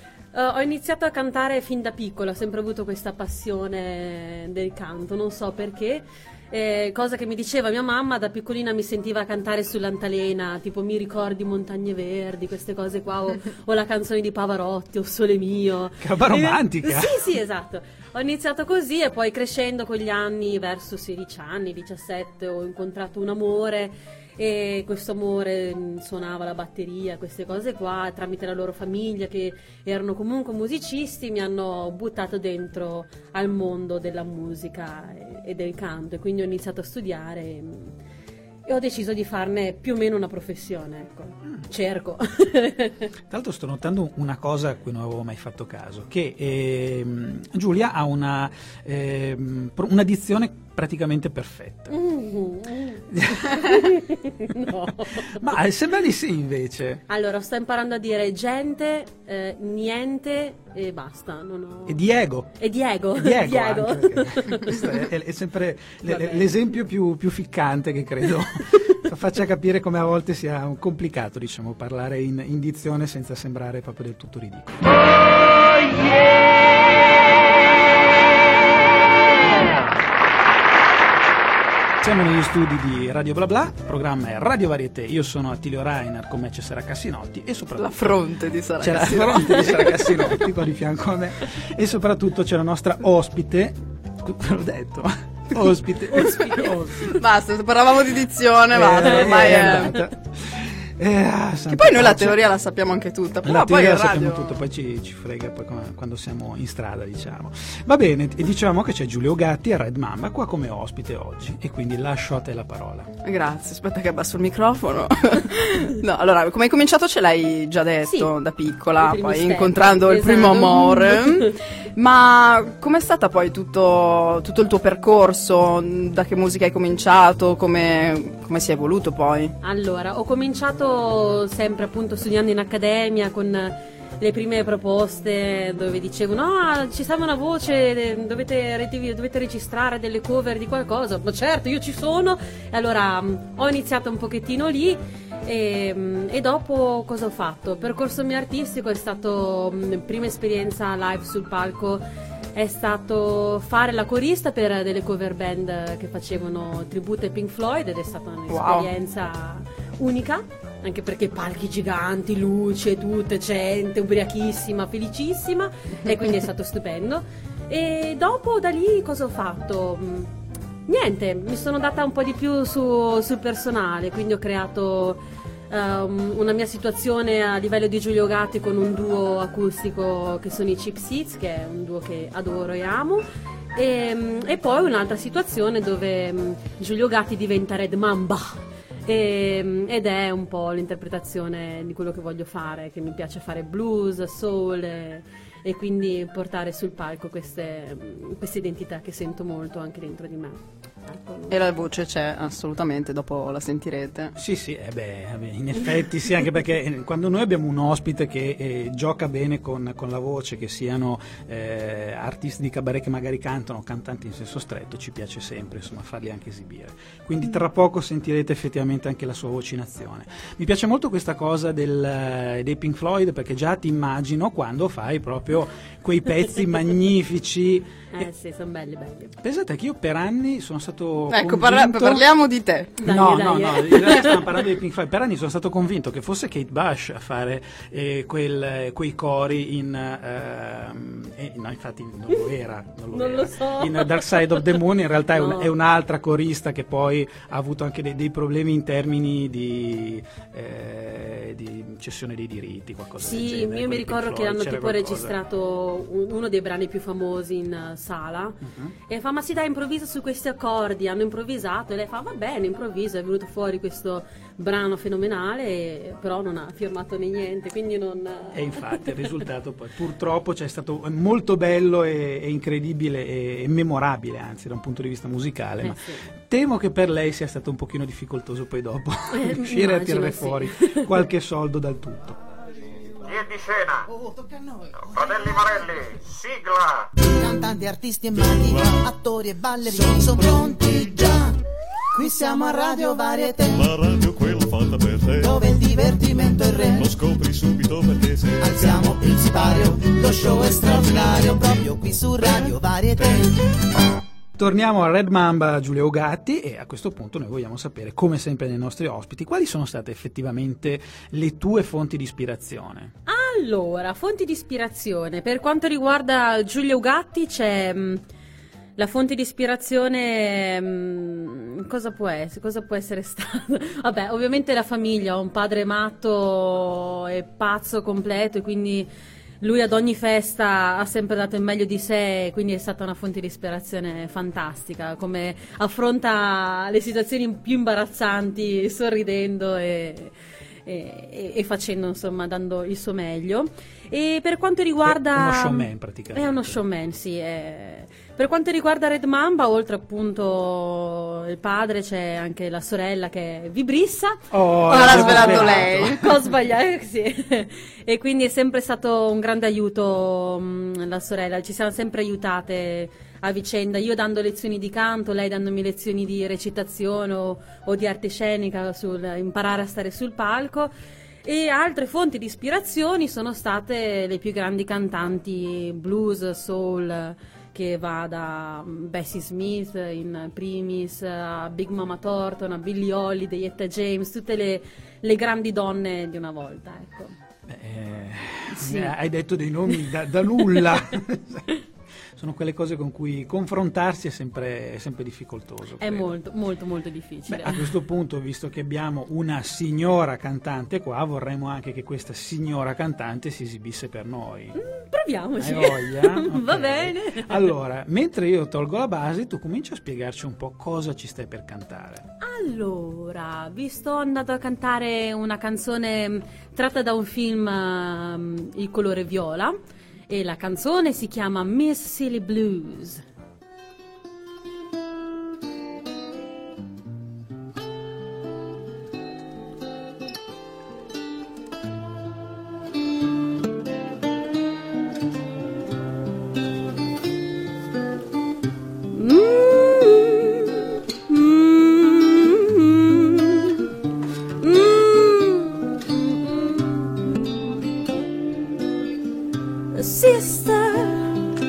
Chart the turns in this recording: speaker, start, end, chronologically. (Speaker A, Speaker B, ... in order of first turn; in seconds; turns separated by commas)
Speaker A: 0.3-37.9, Speaker B: 16.0-17.2, Speaker A: 38.7-43.1, Speaker B: 43.3-52.0, Speaker A: 51.9-55.5, Speaker B: 53.1-53.8, Speaker B: 55.3-57.0, Speaker A: 57.1-62.0, Speaker B: 61.9-62.6, Speaker A: 62.6-65.0, Speaker B: 63.1-74.9, Speaker A: 66.1-66.5, Speaker B: 79.6-79.9, Speaker B: 82.0-88.2, Speaker C: 87.8-90.3, Speaker B: 88.8-97.0, Speaker A: 96.1-97.1, Speaker C: 96.4-100.0, Speaker B: 98.7-102.4, Speaker C: 101.7-104.6, Speaker B: 103.4-113.1, Speaker C: 113.2-129.6, Speaker A: 118.0-118.3, Speaker A: 119.0-121.6, Speaker A: 129.6-152.0, Speaker A: 152.6-170.3, Speaker C: 158.5-158.9, Speaker A: 170.9-183.2, Speaker A: 183.8-201.6, Speaker C: 201.5-204.3, Speaker B: 204.4-228.3, Speaker A: 228.1-229.3, Speaker B: 229.4-232.2, Speaker C: 231.3-233.0, Speaker A: 233.0-234.4, Speaker B: 233.0-255.4, Speaker A: 243.1-244.7, Speaker A: 245.3-245.7, Speaker A: 253.2-269.2, Speaker B: 258.6-258.9, Speaker B: 268.5-282.4, Speaker A: 275.8-276.2, Speaker A: 279.3-281.1, Speaker D: 283.2-284.1, Speaker E: 284.1-285.7, Speaker D: 285.1-287.1, Speaker E: 287.2-291.6, Speaker F: 288.4-289.0, Speaker E: 292.1-294.0, Speaker F: 293.7-295.6, Speaker E: 295.4-297.1, Speaker F: 296.9-299.1, Speaker E: 298.6-303.7, Speaker B: 304.6-313.1, Speaker A: 313.3-318.2, Speaker A: 319.0-329.1, Speaker A: 329.6-340.3, Speaker A: 340.9-370.9, Speaker B: 345.0-346.8, Speaker B: 354.5-356.4, Speaker C: 354.9-356.2, Speaker A: 371.4-387.4, Speaker B: 387.7-391.7, Speaker A: 388.8-389.1, Speaker B: 392.3-396.3, Speaker A: 396.0-397.8, Speaker B: 397.5-404.8, Speaker A: 404.8-407.7, Speaker B: 405.6-412.2, Speaker A: 412.4-419.8, Speaker A: 420.3-423.2, Speaker A: 439.1-443.9, Speaker A: 444.6-447.7, Speaker A: 449.9-451.4